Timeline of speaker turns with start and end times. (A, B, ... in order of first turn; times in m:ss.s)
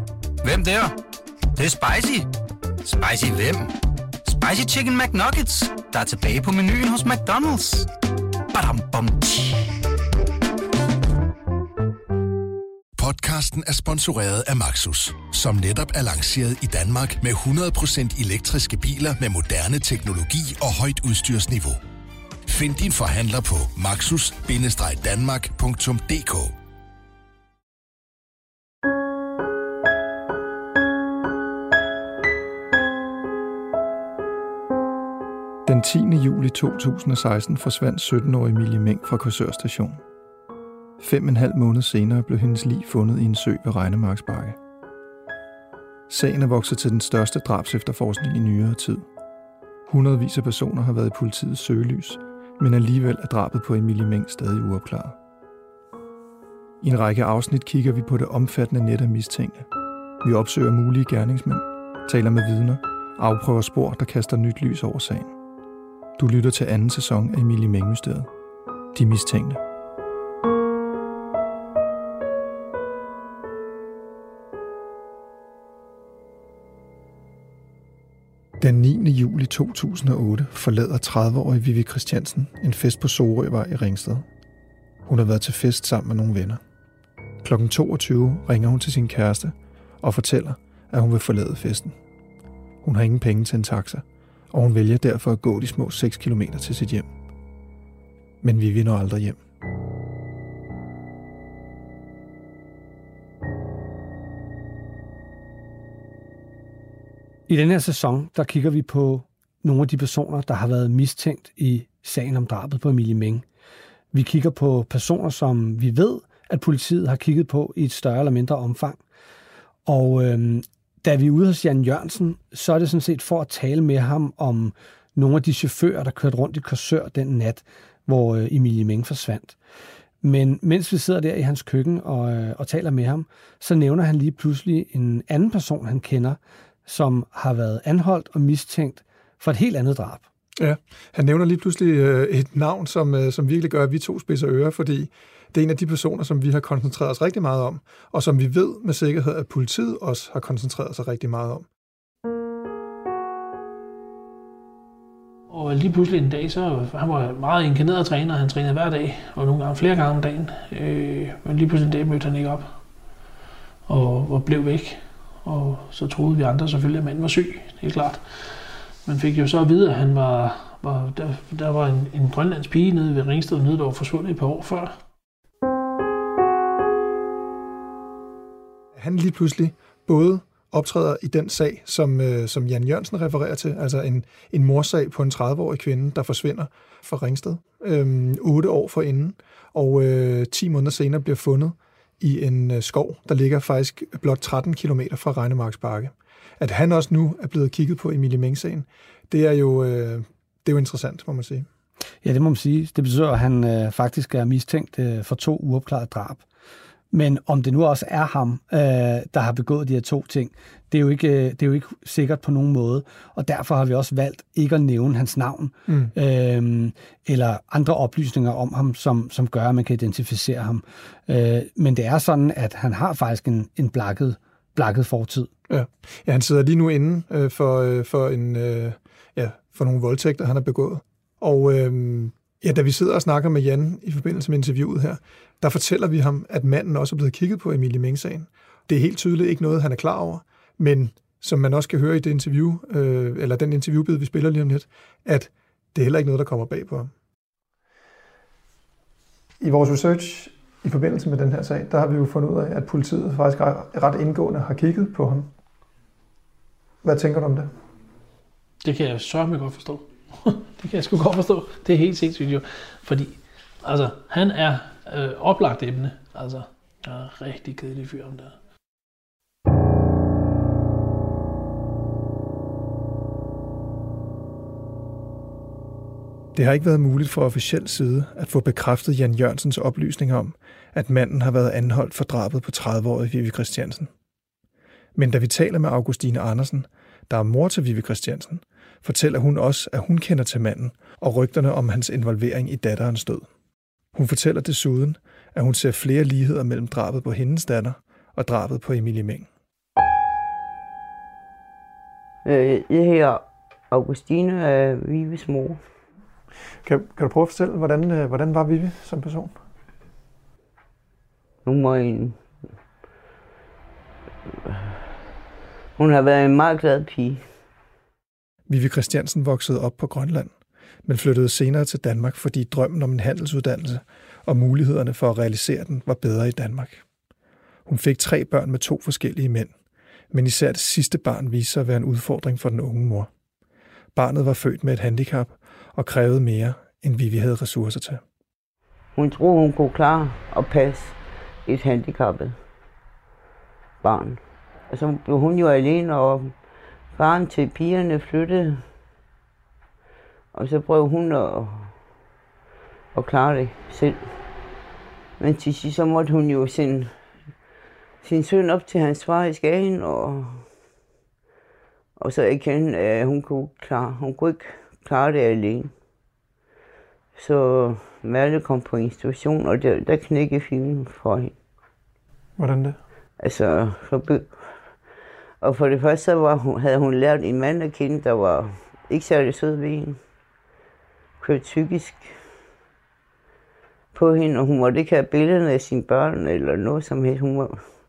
0:00.4-0:01.0 A
0:01.6-0:02.3 A
0:02.8-0:03.7 A
0:04.2-0:07.9 A
0:08.5-0:09.8 A
0:13.0-0:21.8 B
0:22.5-0:26.5 B
0:35.6-0:40.0 C
0:41.0-0:44.6 C
0:46.1-0:49.0 C
0:49.9-0:55.2 C
0:56.8-0:59.7 C
1:00.2-1:05.3 C
1:06.2-1:08.3 C
1:08.9-1:09.6 C
1:18.6-1:24.3 C
1:25.0-1:26.6 C
1:27.4-1:32.0 C
1:32.8-1:37.1 C
1:38.4-1:39.4 C
1:47.5-1:53.4 D
1:54.1-1:59.0 D
1:59.9-2:09.6 D
2:10.2-2:20.2 D
2:20.6-2:31.7 C
2:35.5-2:42.7 E
2:43.9-2:55.0 E
2:59.0-3:21.7 C
3:22.2-3:26.5 D
3:27.1-3:45.5 D
3:45.7-4:07.1 C
4:09.6-4:15.5 C
4:17.0-4:17.7 C
4:18.8-4:28.6 E
4:36.5-4:44.1 C
4:45.2-4:53.5 C
4:54.1-4:59.5 C
5:02.4-5:05.8 F
5:06.8-5:09.5 C
5:11.6-5:12.4 F
5:14.5-5:15.0 F
5:16.0-5:17.4 F
5:18.7-5:20.5 C
5:21.0-5:27.0 C
5:27.9-5:29.7 C
5:30.3-5:33.3 C
5:34.2-5:38.2 C
5:39.2-5:42.6 F
5:44.0-5:46.5 F
5:47.2-5:48.8 F
5:50.5-5:51.9 F
5:53.2-5:54.2 F
5:55.4-5:57.1 F
5:58.2-6:00.7 F
6:02.2-6:05.9 F
6:07.4-6:11.5 F
6:12.6-6:13.0 C
6:13.4-6:14.6 F
6:15.6-6:20.2 F
6:21.4-6:22.4 F
6:24.1-6:27.8 F